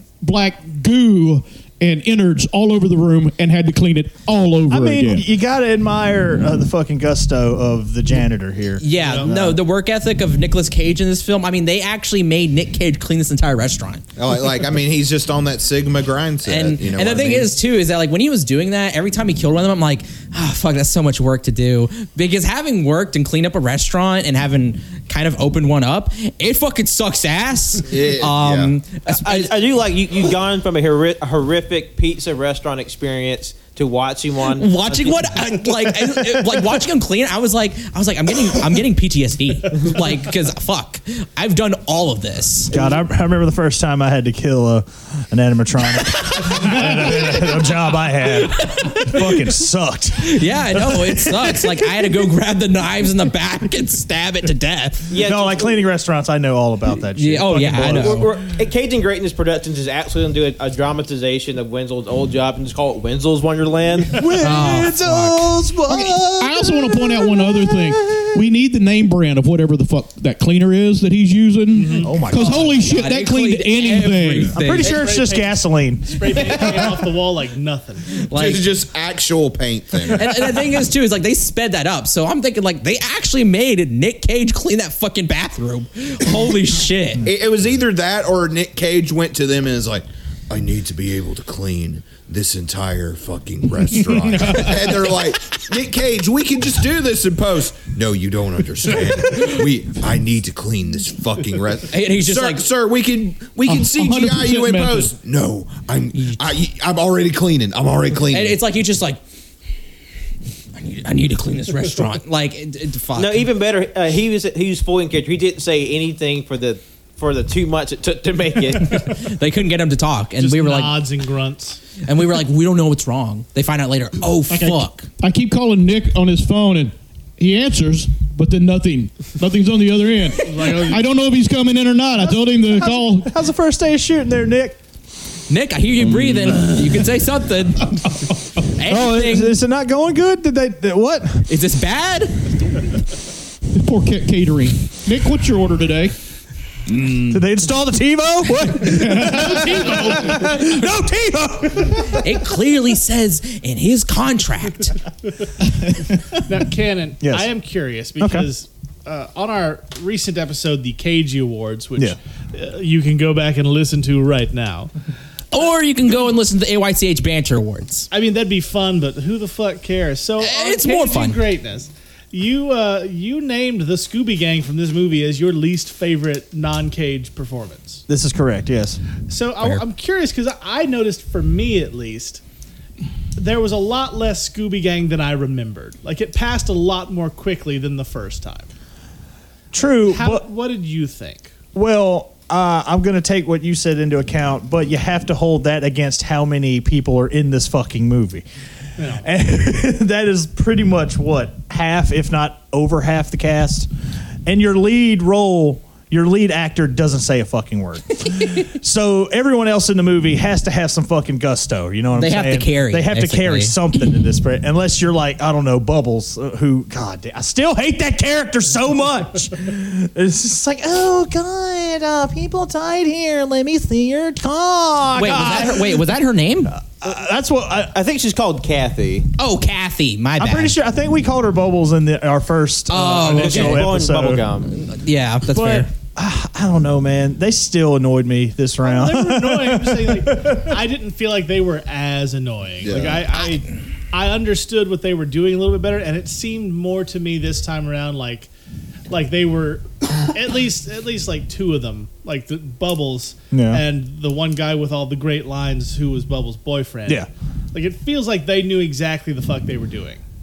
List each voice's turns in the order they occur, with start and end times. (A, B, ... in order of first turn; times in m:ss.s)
0:00.2-0:05.3 A
0:04.7-0:09.6 B
0:08.8-0:14.0 C
0:09.0-0:09.3 D
0:14.2-0:17.6 E
0:16.4-0:29.6 C
0:27.9-0:28.8 E
0:29.1-0:35.4 F
0:34.6-0:42.8 C
0:42.7-0:51.9 B
0:46.3-0:47.3 C
0:48.4-0:49.5 C
0:50.2-0:55.2 C
0:55.1-0:55.8 F
0:55.2-0:58.3 B
0:57.1-0:58.3 C
0:57.8-1:04.3 F
1:04.1-1:08.4 B
1:04.4-1:05.5 C
1:05.9-1:14.6 A
1:11.7-1:12.2 D
1:12.0-1:12.9 B
1:12.5-1:15.1 C
1:14.5-1:17.0 B
1:14.7-1:18.2 D
1:18.2-1:18.7 C
1:18.3-1:20.5 E
1:20.1-1:27.3 C
1:27.2-1:48.6 E
1:41.9-1:42.7 C
1:43.7-1:45.1 A
1:46.1-1:46.4 C
1:48.3-1:49.2 C
1:50.8-1:53.5 C
1:53.2-1:59.1 F
1:58.8-2:01.0 C
2:00.4-2:01.8 D
2:02.0-2:05.1 C
2:04.5-2:13.3 A
2:10.4-2:11.0 D
2:12.2-2:14.8 B
2:15.5-2:19.6 C
2:16.1-2:16.7 A
2:18.9-2:21.5 B
2:21.5-2:22.4 C
2:23.7-2:26.2 A
2:26.9-2:27.4 A
2:27.3-2:32.3 B
2:28.8-2:30.5 A
2:32.0-2:34.9 C
2:36.4-2:44.9 D
2:37.2-2:37.5 B
2:38.2-2:38.5 B
2:45.5-2:48.1 C
2:48.1-2:58.0 D
2:50.4-2:51.4 C
2:58.1-2:59.0 B
2:59.3-3:02.4 D
3:03.4-3:08.7 D
3:09.7-3:10.4 B
3:10.1-3:11.5 D
3:11.7-3:18.5 B
3:19.0-3:19.3 D
3:19.2-3:23.9 B
3:24.5-3:46.0 B
3:32.2-3:33.8 C
3:45.2-3:46.8 C
3:46.7-3:48.0 B
3:47.9-3:49.3 F
3:49.4-3:50.8 C
3:50.4-3:54.4 B
3:52.9-3:53.9 C
3:53.2-3:54.7 F
3:54.7-3:55.9 C
3:55.5-4:00.8 B
3:58.8-4:08.5 D
4:02.8-4:03.3 E
4:09.1-4:20.2 D
4:13.5-4:13.8 B